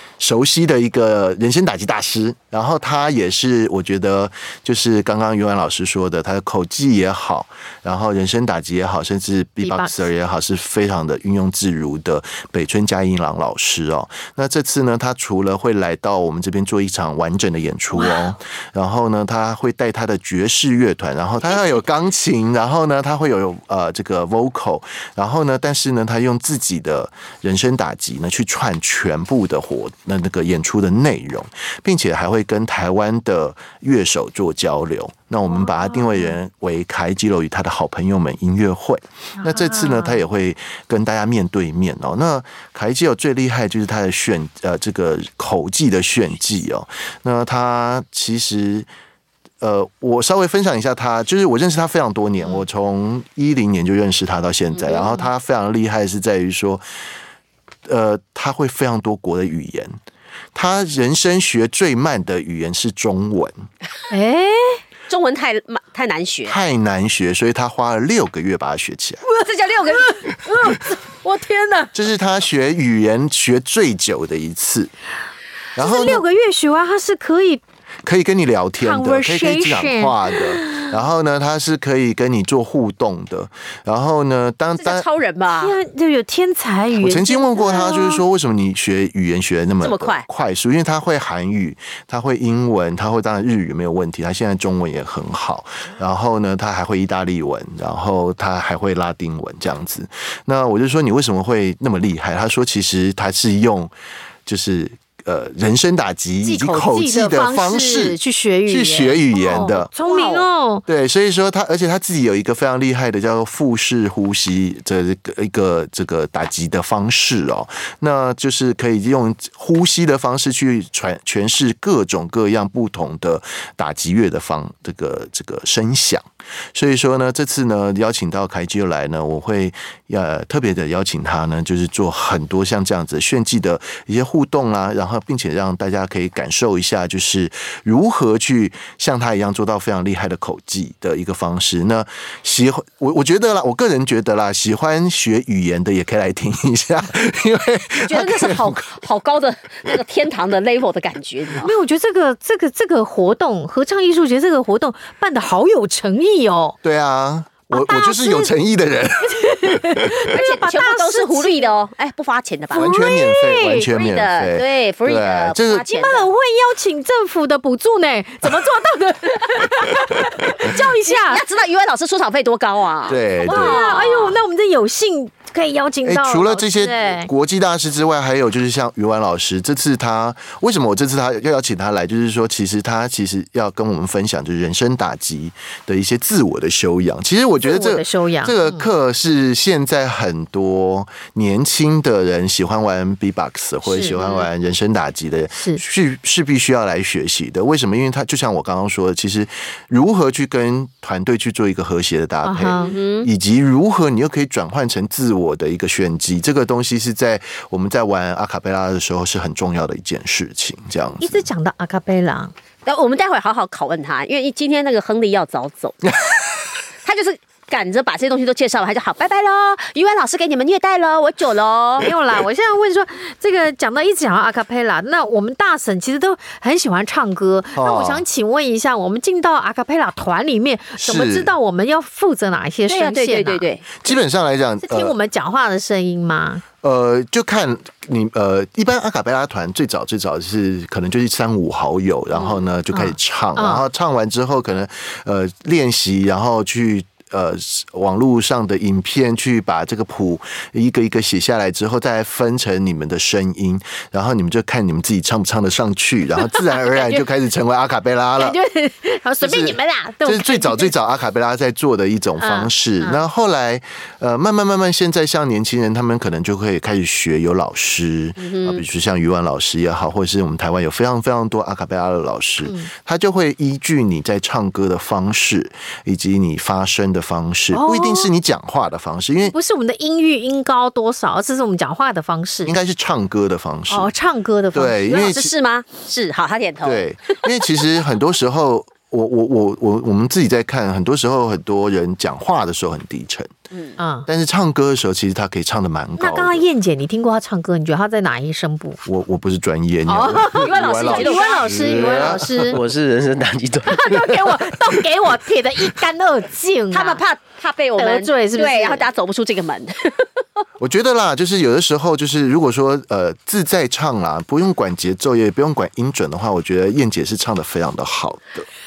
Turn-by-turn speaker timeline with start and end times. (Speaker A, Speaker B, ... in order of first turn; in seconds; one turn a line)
Speaker A: 0.2-48.9
Speaker B: 9.6-10.0
Speaker B: 17.9-18.3
Speaker B: 35.5-36.4
Speaker B: 39.4-40.2
Speaker A: 49.6-56.8
Speaker C: 54.7-55.1
Speaker A: 57.9-60.0
Speaker A: 60.5-63.5
Speaker B: 64.1-64.8
Speaker C: 65.1-66.6
Speaker A: 66.4-69.2
Speaker C: 69.2-70.7
Speaker B: 69.9-71.9
Speaker A: 71.9-74.9
Speaker A: 75.8-76.2
Speaker B: 75.8-77.6
Speaker A: 78.0-85.0
Speaker B: 78.8-80.9
Speaker C: 84.8-85.8
Speaker B: 85.5-88.2
Speaker A: 87.0-103.9
Speaker C: 89.8-90.2
Speaker A: 104.5-109.9
Speaker B: 106.4-110.8
Speaker C: 110.0-110.4
Speaker A: 110.9-148.9
Speaker C: 148.0-151.7
Speaker B: 151.6-156.8
Speaker A: 156.8-160.2
Speaker B: 157.7-158.5
Speaker B: 159.3-161.7
Speaker C: 160.3-162.9
Speaker B: 162.7-163.9
Speaker A: 162.7-165.9
Speaker C: 163.9-166.3
Speaker B: 165.9-171.4
Speaker C: 171.1-174.4
Speaker A: 173.1-174.2
Speaker B: 173.4-177.3
Speaker A: 176.0-211.5
Speaker B: 187.6-188.8
Speaker B: 193.8-194.2
Speaker C: 194.1-194.4
Speaker B: 195.5-195.8
Speaker B: 202.4-202.9
Speaker C: 202.8-203.3
Speaker B: 211.2-212.5
Speaker C: 212.8-216.0
Speaker C: 217.0-222.1
Speaker B: 222.0-233.7
Speaker A: 227.7-228.2
Speaker A: 231.0-231.5
Speaker C: 232.9-233.8
Speaker A: 234.0-235.1
Speaker B: 234.8-236.6
Speaker A: 236.8-258.6
Speaker C: 242.3-242.6
Speaker B: 242.9-243.8
Speaker B: 256.5-257.2
Speaker B: 258.4-260.9
Speaker A: 259.4-279.5
Speaker B: 262.4-263.2
Speaker C: 268.4-268.8
Speaker B: 272.6-272.9
Speaker B: 277.7-278.3
Speaker B: 279.5-282.7
Speaker A: 282.6-284.1
Speaker B: 283.9-285.0
Speaker A: 284.7-285.5
Speaker C: 285.1-287.0
Speaker A: 286.8-293.5
Speaker C: 293.7-294.0
Speaker B: 294.0-294.3
Speaker A: 294.3-296.6
Speaker B: 296.2-299.0
Speaker A: 299.1-302.8
Speaker B: 300.1-302.8
Speaker C: 300.5-301.7
Speaker D: 301.9-304.7
Speaker B: 303.9-307.2
Speaker C: 306.9-310.6
Speaker B: 308.0-309.1
Speaker A: 310.8-318.7